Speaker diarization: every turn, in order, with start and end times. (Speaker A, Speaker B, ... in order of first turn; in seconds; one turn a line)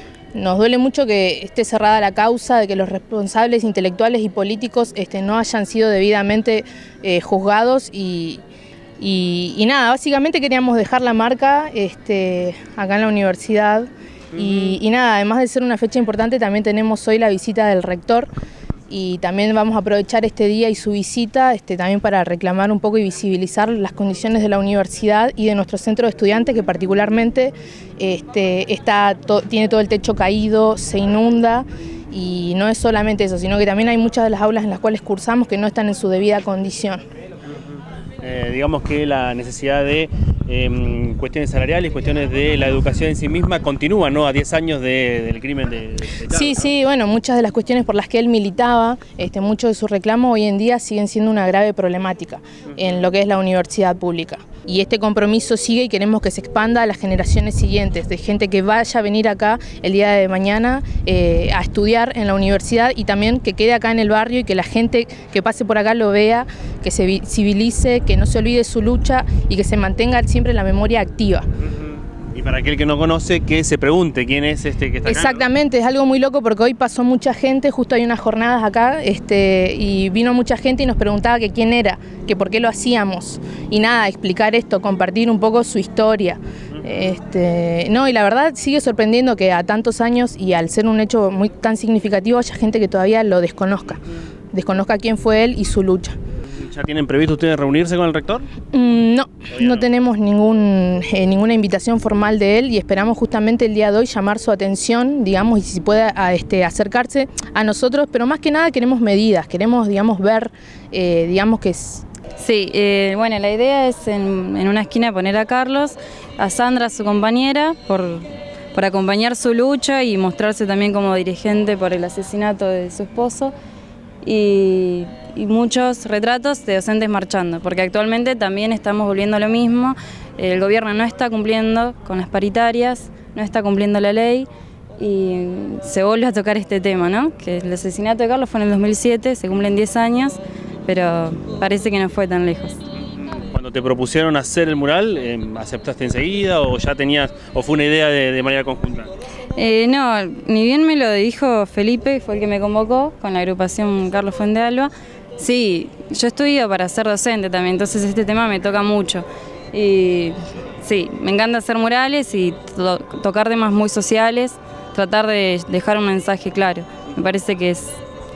Speaker A: 0.3-8.4
Speaker A: 9.0-18.3
Speaker A: 18.9-37.0
Speaker B: 38.2-46.7
Speaker A: 46.3-71.5
Speaker B: 71.8-75.4
Speaker A: 75.0-94.0
Speaker A: 94.5-96.2
Speaker B: 96.5-98.5
Speaker A: 98.7-112.0
Speaker B: 99.5-99.8
Speaker C: 112.4-123.5
Speaker C: 124.2-142.8
Speaker B: 143.1-149.1
Speaker C: 149.6-168.0